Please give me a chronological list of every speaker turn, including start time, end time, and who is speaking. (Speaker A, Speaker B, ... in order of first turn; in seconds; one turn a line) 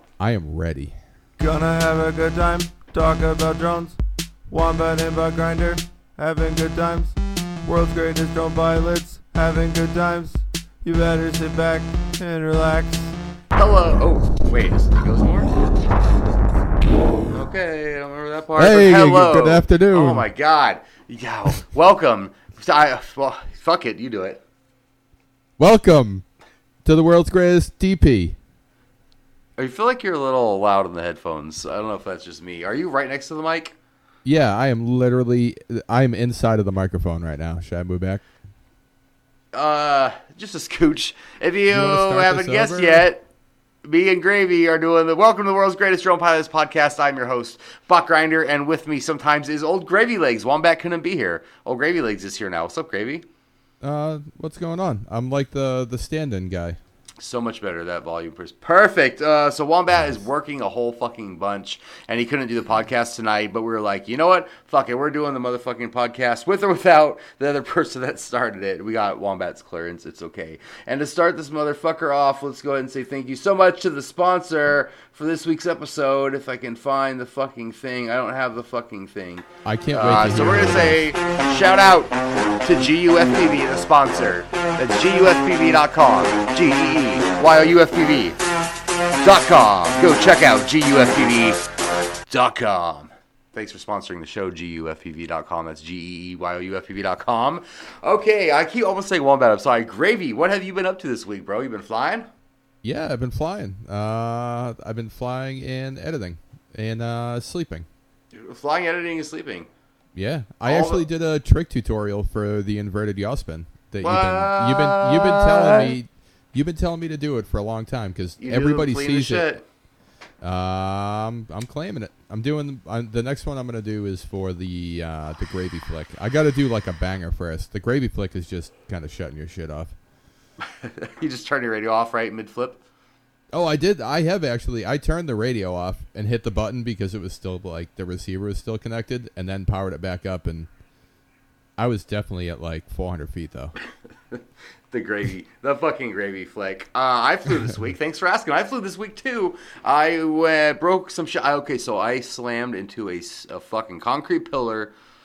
Speaker A: 0.2-0.9
Speaker B: 1.4-4.0
Speaker B: 4.5-13.2
Speaker C: 13.5-15.5
Speaker C: 17.3-24.4
Speaker A: 18.6-20.3
Speaker A: 25.6-26.2
Speaker A: 26.8-28.4
Speaker C: 29.6-33.7
Speaker A: 34.2-38.2
Speaker C: 39.5-43.2
Speaker A: 41.7-43.1
Speaker C: 43.8-53.2
Speaker A: 53.8-56.8
Speaker C: 57.2-88.4
Speaker A: 79.6-81.0
Speaker C: 89.2-91.6
Speaker C: 92.3-102.3
Speaker A: 102.8-107.9
Speaker C: 108.3-109.7
Speaker A: 110.2-119.5
Speaker C: 110.6-111.0
Speaker C: 114.0-115.9
Speaker C: 118.4-119.6
Speaker A: 120.4-129.9
Speaker C: 130.6-132.8
Speaker A: 133.5-140.7
Speaker A: 141.8-143.7
Speaker C: 144.9-154.9